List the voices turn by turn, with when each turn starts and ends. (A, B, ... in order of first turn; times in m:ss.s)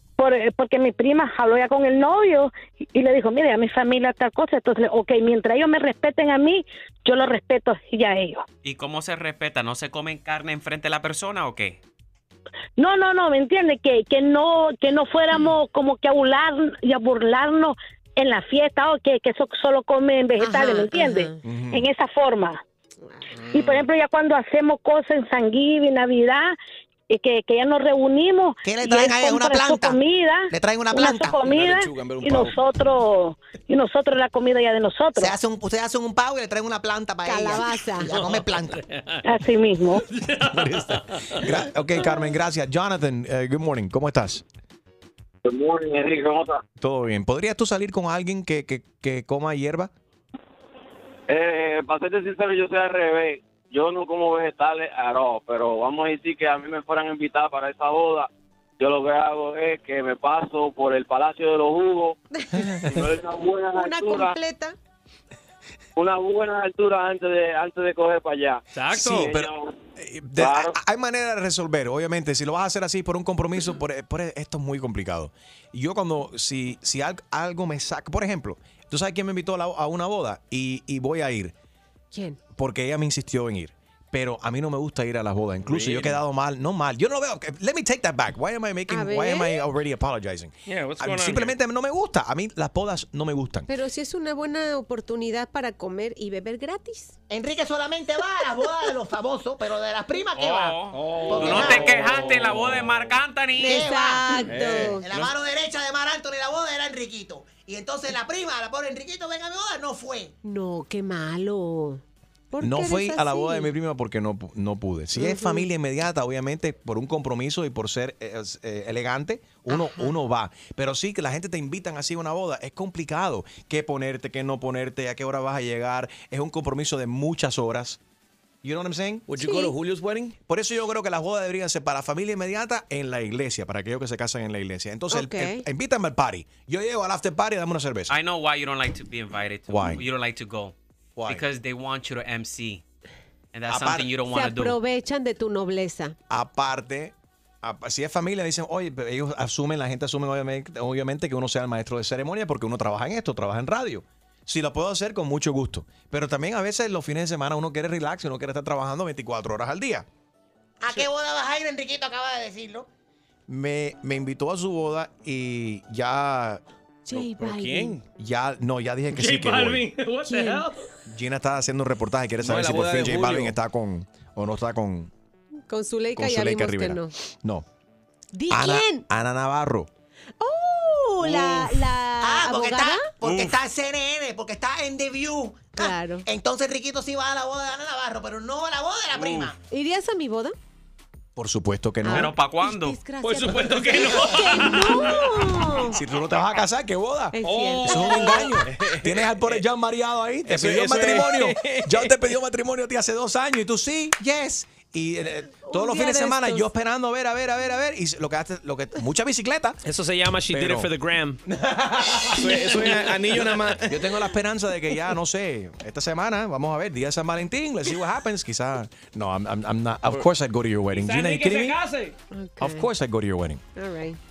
0:00.2-0:08.4 A
0:08.6-0:11.8 B
0:12.8-0:22.6 A
0:20.4-0:21.4 C
0:21.4-0:21.8 D
0:23.5-0:26.6 A
0:27.1-0:35.3 A
0:28.6-0:31.4 E
0:31.4-0:32.6 F
0:35.2-0:38.8 E
0:37.2-0:38.2 C
0:38.9-0:39.2 G
0:39.2-0:40.0 A
0:40.1-0:41.4 G
0:40.5-0:44.4 D
0:45.4-0:46.6 H
0:46.8-0:49.9 D
0:51.3-1:02.2 H
1:02.3-1:02.9 C
1:02.9-1:04.3 H
1:03.7-1:04.7 C
1:06.0-1:09.7 H
1:08.7-1:09.4 G
1:08.9-1:21.5 D
1:10.4-1:10.7 H
1:22.1-1:22.4 C
1:22.5-1:33.7 D
1:25.7-1:26.1 G
1:28.9-1:29.6 C
1:30.7-1:31.5 G
1:33.7-1:37.2 C
1:37.3-1:42.0 E
1:40.3-1:43.8 B
1:40.9-1:42.7 G
1:43.6-1:45.0 C
1:43.6-1:50.3 E
1:44.5-1:45.0 F
1:50.4-1:53.7 C
1:52.6-2:08.0 D
1:55.2-1:55.6 C
1:59.7-2:00.1 C
2:08.6-2:09.3 D
2:09.3-2:10.4 F
2:09.4-2:09.7 C
2:10.4-2:18.1 D
2:15.1-2:15.6 C
2:18.1-2:20.7 B
2:19.7-2:20.0 D
2:21.2-2:21.4 D
2:21.3-2:22.8 B
2:23.5-2:24.8 B
2:23.7-2:24.1 D
2:24.2-2:26.1 C
2:26.3-2:40.0 D
2:40.8-2:42.9 E
2:43.5-2:46.6 D
2:47.0-2:48.0 C
2:47.1-2:48.0 F
2:48.1-2:49.9 D
2:49.1-2:50.8 G
2:50.2-2:50.7 C
2:51.0-2:55.1 D
2:52.4-2:53.5 F
2:55.7-2:57.1 C
2:56.2-2:57.6 D
2:58.3-2:59.0 C
2:58.5-2:59.9 D
3:00.4-3:03.1 C
3:01.2-3:09.6 E
3:03.2-3:03.5 B
3:05.8-3:06.2 C
3:09.1-3:09.5 B
3:09.7-3:10.5 C
3:11.4-3:12.3 D
3:12.0-3:16.0 C
3:12.0-3:13.0 B
3:13.2-3:15.1 G
3:15.9-3:29.8 D
3:17.3-3:18.6 C
3:17.4-3:18.5 G
3:20.5-3:21.4 F
3:21.3-3:21.9 G
3:25.7-3:26.7 C
3:29.8-3:31.4 G
3:30.5-3:30.9 D
3:32.3-3:34.0 F
3:32.5-3:33.0 G
3:33.8-3:41.8 D
3:40.9-3:42.2 G
3:42.3-3:42.9 C
3:42.6-3:43.6 D
3:43.8-3:44.2 C